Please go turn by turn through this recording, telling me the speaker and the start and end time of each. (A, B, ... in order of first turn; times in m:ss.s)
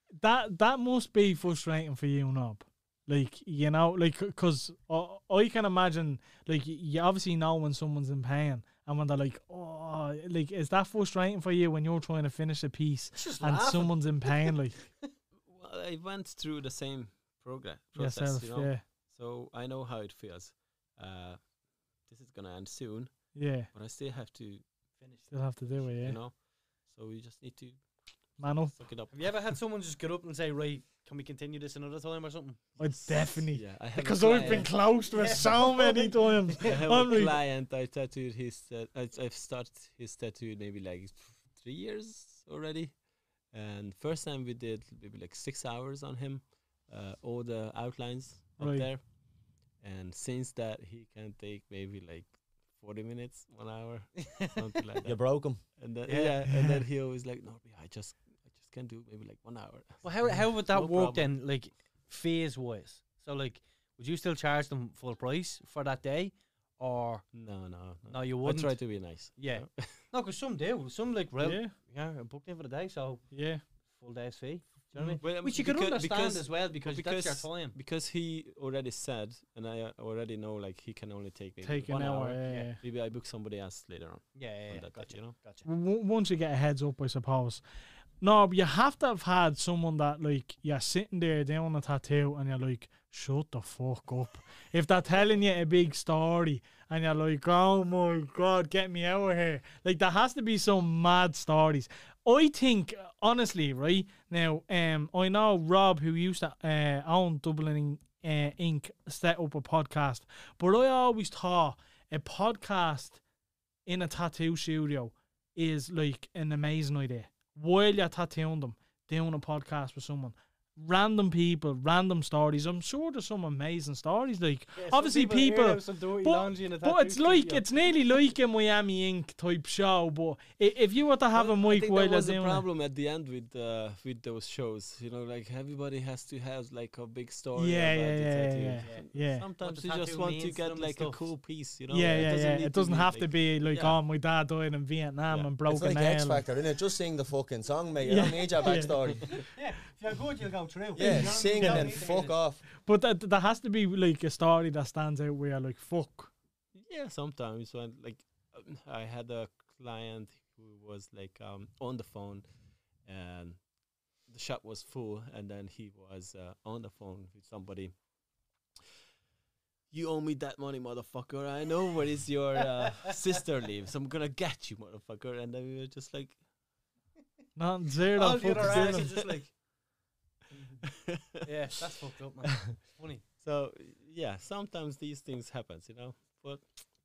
0:00.2-0:14.9 A
0:13.1-0:14.5 B
0:15.5-0:21.5 C
0:18.0-0:18.8 A
0:22.0-0:24.6 C
0:23.3-0:23.7 A
0:25.0-0:25.9 B
0:25.3-0:26.2 A
0:26.0-0:27.8 C
0:28.4-0:29.5 C
0:28.4-0:28.8 A
0:29.1-0:32.8 B
0:32.8-0:37.4 A
0:32.9-0:34.8 C
0:34.2-0:37.2 B
0:36.6-0:43.0 C
0:43.5-0:49.0 C
0:48.6-0:48.9 A
0:49.8-1:01.3 C
0:55.0-0:55.6 D
0:56.0-0:56.5 B
1:00.0-1:07.3 B
1:07.3-1:10.0 C
1:08.1-1:13.4 B
1:11.4-1:11.7 A
1:13.3-1:13.6 A
1:13.9-1:17.8 B
1:14.9-1:15.2 A
1:15.2-1:25.4 C
1:21.6-1:22.8 A
1:22.4-1:22.7 B
1:24.4-1:25.7 B
1:25.6-1:27.6 A
1:28.2-1:53.2 A
1:53.8-2:12.6 A
2:04.8-2:07.7 B
2:11.4-2:24.0 C
2:17.6-2:19.4 A
2:18.8-2:19.0 B
2:19.6-2:21.2 B
2:21.9-2:26.4 A
2:25.7-2:29.5 D
2:28.0-2:29.4 A
2:29.6-2:32.4 B
2:30.9-2:32.6 D
2:32.8-2:36.3 A
2:36.8-2:42.4 C
2:43.0-2:43.6 C
2:44.3-2:47.9 C
2:49.9-2:56.4 C
2:57.6-2:59.1 A
2:58.1-2:59.5 B
2:58.5-2:59.4 C
3:00.8-3:01.4 C
3:01.4-3:03.2 B
3:02.4-3:02.8 C
3:03.4-3:06.9 C